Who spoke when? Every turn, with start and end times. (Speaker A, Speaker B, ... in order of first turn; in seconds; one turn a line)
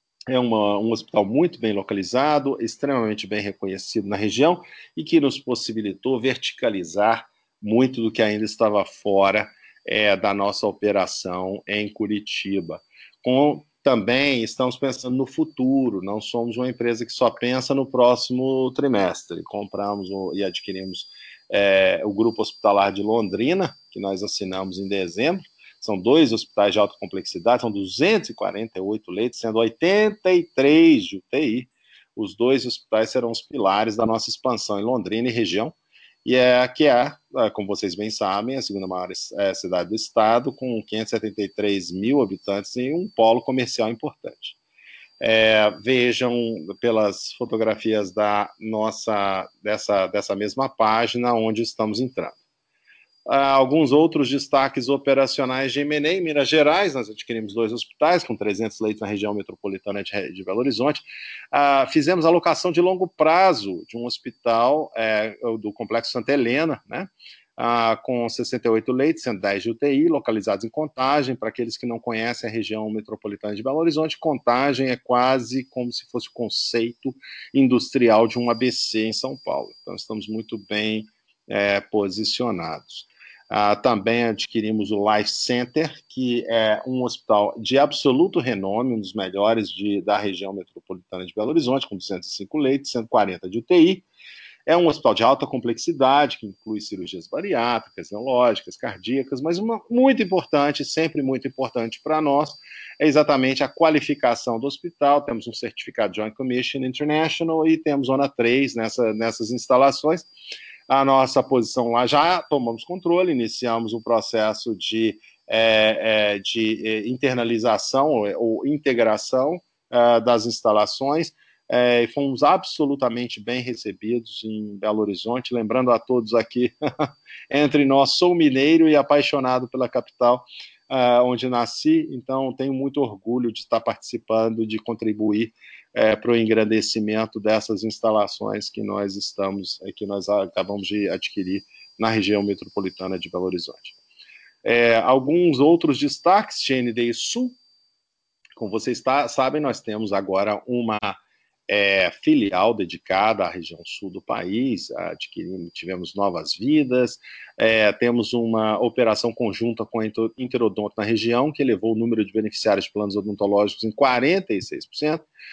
Speaker A: 0.3-44.5
Speaker A: 45.2-52.3
Speaker A: 53.2-94.0
Speaker A: 94.7-110.3
Speaker A: 110.9-143.9
Speaker A: 144.6-147.6
Speaker A: 148.6-151.2
Speaker A: 151.7-165.2